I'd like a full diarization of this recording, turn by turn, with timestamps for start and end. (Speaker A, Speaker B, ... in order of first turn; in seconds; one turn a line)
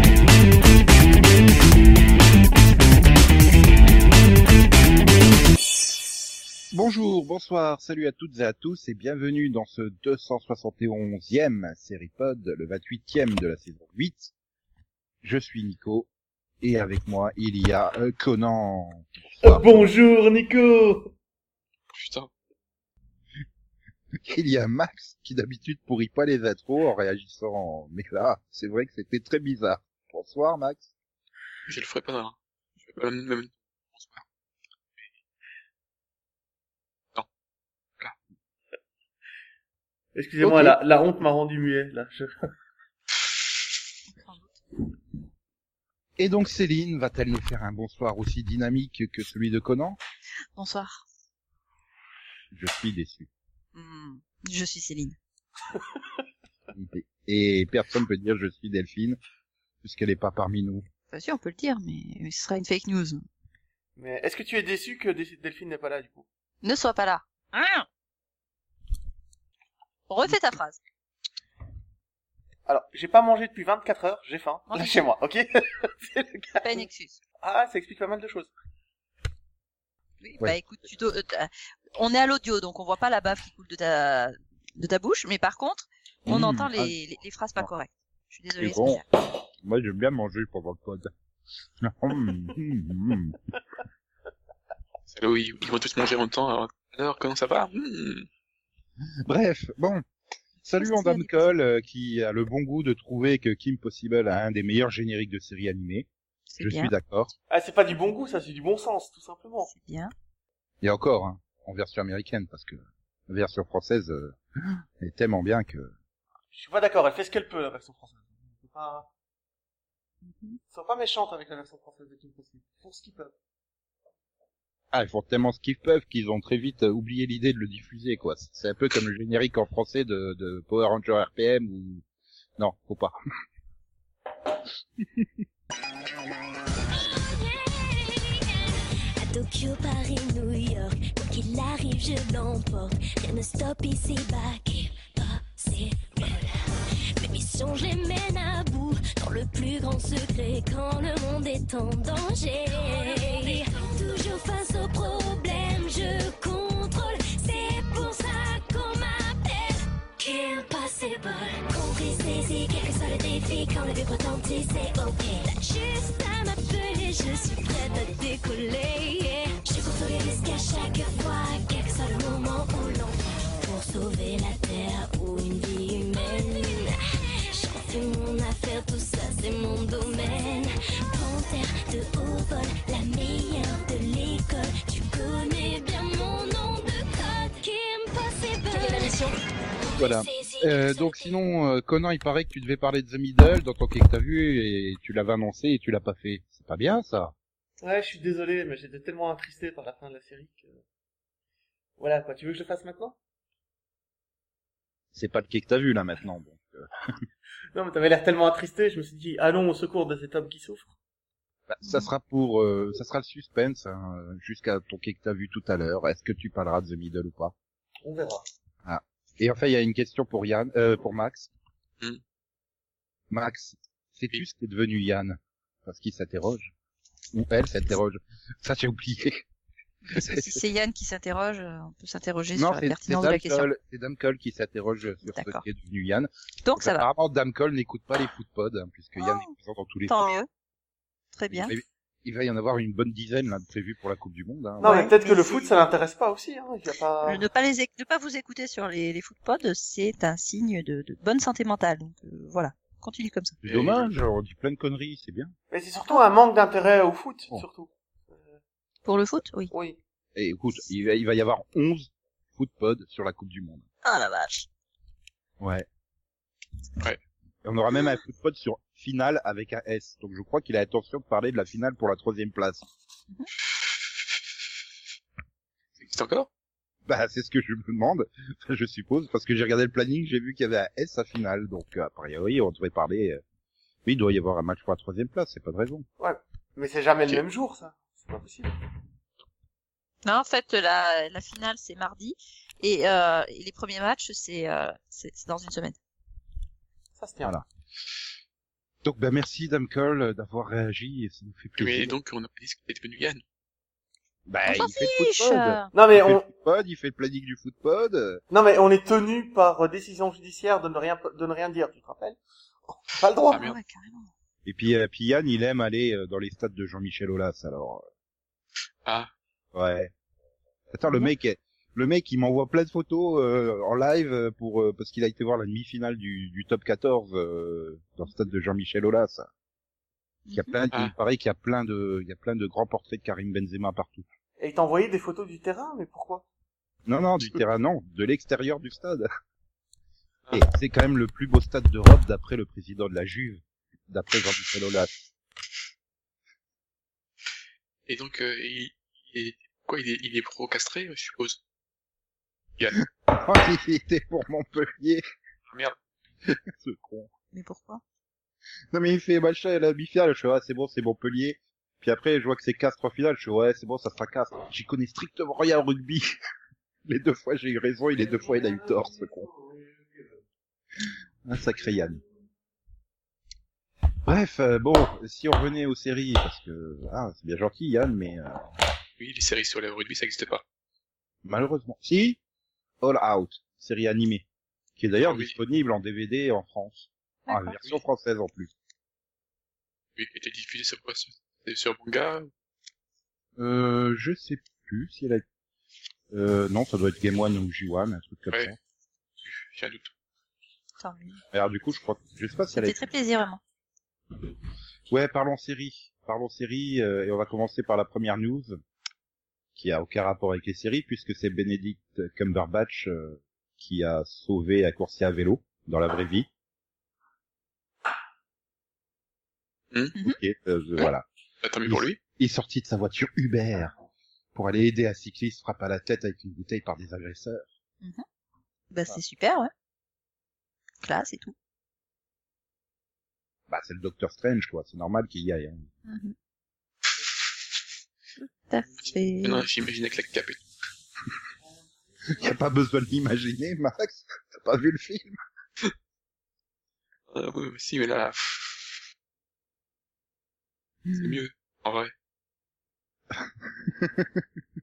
Speaker A: 6.7-14.3
Speaker A: 15.2-16.1
Speaker A: 16.6-19.9
Speaker B: 19.4-21.1
Speaker C: 21.9-22.3
Speaker A: 24.1-30.9
Speaker C: 31.6-34.2
Speaker B: 40.1-42.5
Speaker A: 40.4-40.8
Speaker D: 44.1-44.4
Speaker A: 46.2-50.0
Speaker D: 50.5-51.0
Speaker A: 52.5-53.3
Speaker D: 53.7-55.2
Speaker A: 56.7-59.2
Speaker A: 59.8-60.9
Speaker D: 61.1-63.2
Speaker B: 64.0-66.2
Speaker D: 66.6-67.8
Speaker D: 70.1-70.8
Speaker B: 72.7-76.8
Speaker D: 74.7-75.0
Speaker D: 76.5-77.2
Speaker B: 77.4-78.5
Speaker D: 80.2-89.0
Speaker A: 86.2-86.9
Speaker A: 88.6-89.0
Speaker A: 89.6-91.1
Speaker A: 91.8-93.4
Speaker C: 95.1-98.3
Speaker A: 99.2-100.0
Speaker A: 100.6-106.1
Speaker D: 100.8-101.5
Speaker D: 106.5-106.9
Speaker A: 106.6-107.3
Speaker B: 107.5-109.7
Speaker D: 109.7-110.1
Speaker A: 110.8-115.9
Speaker B: 116.5-119.1
Speaker D: 120.2-120.6
Speaker B: 120.7-123.3
Speaker A: 124.9-132.0
Speaker A: 132.6-133.2
Speaker A: 135.0-135.3
Speaker E: 136.9-146.6
Speaker E: 147.2-177.0
Speaker E: 177.5-191.4
Speaker A: 190.0-197.3
Speaker B: 197.8-200.8
Speaker B: 202.0-203.2
Speaker A: 205.1-207.2
Speaker B: 207.7-210.9
Speaker A: 211.7-217.5
Speaker D: 211.8-212.1
Speaker B: 218.0-218.4
Speaker A: 218.8-221.5
Speaker A: 223.3-226.7
Speaker A: 227.3-229.4
Speaker D: 230.0-233.7
Speaker A: 230.1-230.6
Speaker A: 232.6-240.3
Speaker D: 235.2-235.6
Speaker D: 236.6-237.1
Speaker D: 239.2-239.5
Speaker D: 240.1-240.5
Speaker D: 241.3-241.7
Speaker A: 241.5-245.1
Speaker B: 244.8-247.4
Speaker D: 244.8-245.7
Speaker D: 247.2-253.6
Speaker C: 253.6-254.1
Speaker A: 253.6-255.5
Speaker B: 255.7-258.6
Speaker D: 259.0-259.7
Speaker B: 259.7-260.0
Speaker A: 260.3-263.8
Speaker D: 264.0-264.7
Speaker A: 265.6-265.9
Speaker A: 267.6-272.9
Speaker C: 276.0-276.5
Speaker A: 277.1-283.4
Speaker A: 284.0-286.1
Speaker B: 286.2-288.7
Speaker D: 290.2-296.0
Speaker B: 297.2-297.5
Speaker A: 299.0-302.1
Speaker C: 301.8-303.4
Speaker A: 304.5-308.4
Speaker D: 304.6-305.9
Speaker B: 305.9-306.5
Speaker B: 308.5-313.7
Speaker D: 313.5-314.3
Speaker A: 314.6-318.1
Speaker C: 319.0-319.3
Speaker A: 319.7-320.1
Speaker A: 320.9-329.5
Speaker D: 330.5-330.7
Speaker A: 330.5-334.3
Speaker B: 334.6-336.4
Speaker A: 337.1-339.3
Speaker A: 340.5-345.1
Speaker C: 348.1-351.6
Speaker A: 353.3-355.2
Speaker C: 355.7-355.9
Speaker A: 356.4-357.3
Speaker D: 357.5-358.0
Speaker A: 358.9-366.2
Speaker A: 367.1-369.5
Speaker B: 368.4-370.3
Speaker A: 371.4-372.2
Speaker A: 374.2-378.6
Speaker C: 379.2-380.6
Speaker A: 381.4-382.4
Speaker A: 383.0-384.4
Speaker A: 385.0-388.7
Speaker C: 385.2-385.5
Speaker D: 387.5-387.7
Speaker C: 390.1-392.5
Speaker A: 393.6-395.4
Speaker A: 396.3-398.8
Speaker C: 399.4-400.1
Speaker D: 401.0-401.4
Speaker A: 401.5-403.0
Speaker D: 402.7-403.6
Speaker A: 405.1-408.8
Speaker A: 409.8-416.5
Speaker A: 420.2-421.2
Speaker C: 421.6-422.2
Speaker A: 421.8-423.9
Speaker A: 424.5-427.7
Speaker D: 428.9-429.7
Speaker D: 431.0-431.5
Speaker A: 433.7-435.9
Speaker D: 436.1-436.3
Speaker D: 438.4-439.6
Speaker C: 439.4-440.6
Speaker A: 442.4-445.4
Speaker C: 447.3-448.9
Speaker C: 451.2-452.1
Speaker A: 453.3-454.4